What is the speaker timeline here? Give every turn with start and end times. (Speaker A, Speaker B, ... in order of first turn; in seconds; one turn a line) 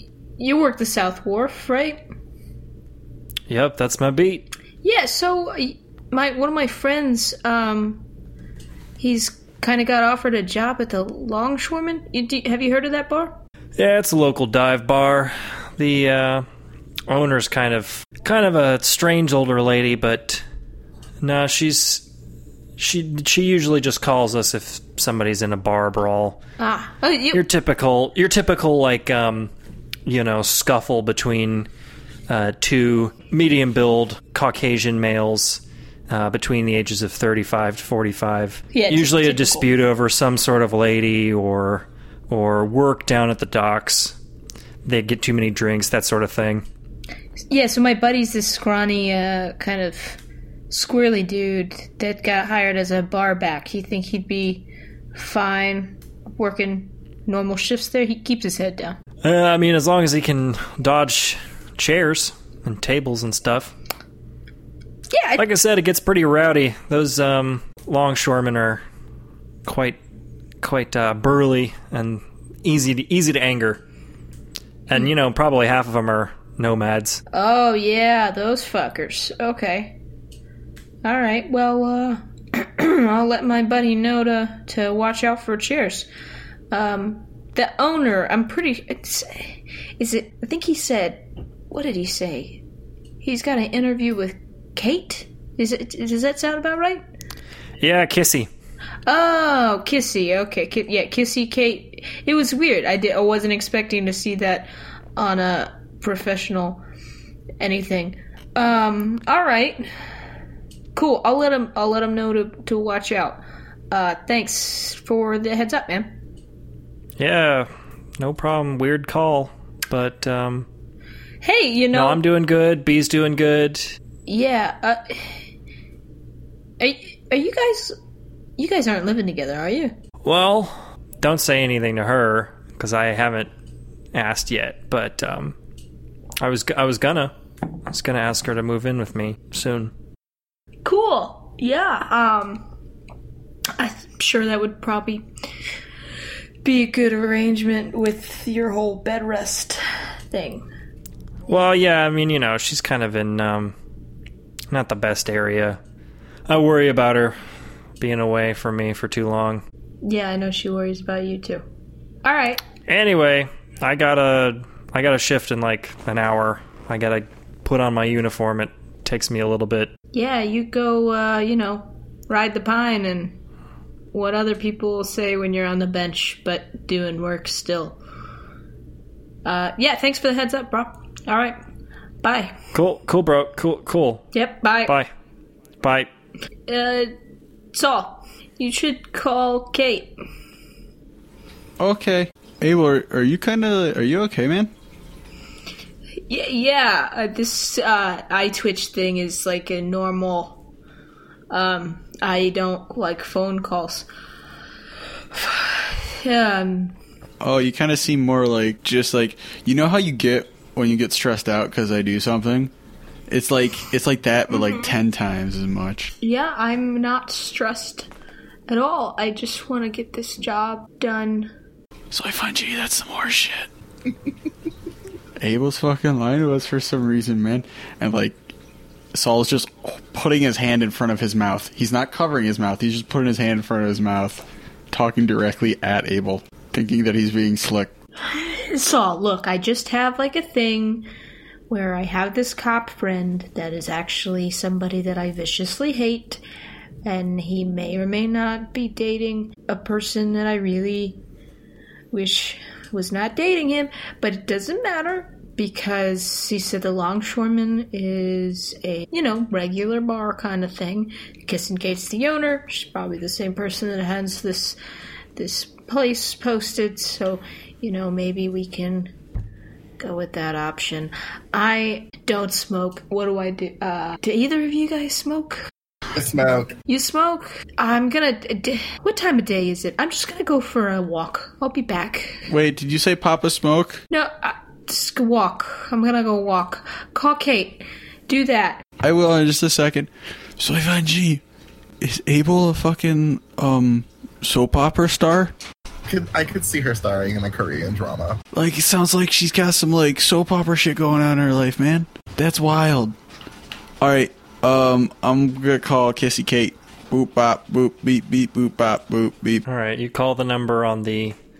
Speaker A: 0.4-2.0
Speaker B: 3.5-4.4
Speaker A: 4.8-8.0
Speaker A: 9.0-13.4
Speaker B: 13.8-16.4
Speaker B: 17.1-20.4
Speaker B: 21.2-22.1
Speaker B: 22.8-26.4
Speaker A: 26.6-27.4
Speaker B: 27.3-29.5
Speaker B: 30.1-31.7
Speaker B: 32.3-44.2
Speaker A: 38.7-39.7
Speaker B: 44.8-46.6
Speaker A: 47.5-59.0
Speaker B: 59.2-63.7
Speaker A: 65.1-65.4
Speaker B: 65.4-68.8
Speaker B: 69.6-70.0
Speaker B: 70.6-73.8
Speaker B: 74.9-77.2
Speaker A: 77.3-80.0
Speaker A: 81.0-86.1
Speaker A: 86.7-92.6
Speaker A: 93.2-97.0
Speaker B: 97.8-98.5
Speaker A: 99.0-106.8
Speaker A: 107.6-109.9
Speaker A: 110.9-116.1
Speaker B: 117.2-120.7
Speaker A: 121.4-122.2
Speaker B: 121.9-124.0
Speaker A: 124.2-125.3
Speaker A: 126.8-128.0
Speaker A: 128.6-129.9
Speaker B: 130.2-133.5
Speaker B: 134.1-135.6
Speaker B: 136.4-137.3
Speaker B: 137.9-139.9
Speaker A: 140.8-142.6
Speaker A: 143.8-145.2
Speaker A: 146.6-150.7
Speaker B: 151.5-153.7
Speaker B: 154.7-155.8
Speaker B: 156.5-157.4
Speaker B: 158.0-159.6
Speaker A: 160.0-161.6
Speaker A: 162.2-162.6
Speaker B: 162.9-169.9
Speaker A: 170.1-173.4
Speaker A: 174.1-178.0
Speaker A: 179.4-181.6
Speaker A: 182.2-182.6
Speaker B: 182.7-184.2
Speaker A: 184.3-184.9
Speaker B: 185.8-186.1
Speaker A: 186.7-187.1
Speaker A: 187.7-190.2
Speaker C: 191.8-194.7
Speaker A: 196.3-200.6
Speaker A: 201.5-204.1
Speaker A: 205.3-206.9
Speaker C: 207.4-212.7
Speaker C: 213.3-216.1
Speaker A: 214.5-214.9
Speaker A: 216.2-218.1
Speaker A: 218.7-221.5
Speaker C: 222.1-223.7
Speaker C: 225.4-228.4
Speaker C: 229.1-237.9
Speaker A: 238.2-241.1
Speaker A: 241.7-246.4
Speaker A: 247.0-251.2
Speaker A: 252.1-264.8
Speaker A: 265.4-269.1
Speaker A: 270.0-275.7
Speaker D: 276.1-276.7
Speaker A: 276.9-282.5
Speaker C: 282.5-284.0
Speaker A: 284.1-288.8
Speaker C: 289.0-291.4
Speaker C: 292.0-295.5
Speaker D: 296.1-298.4
Speaker C: 298.5-303.1
Speaker C: 304.0-309.6
Speaker B: 309.6-311.4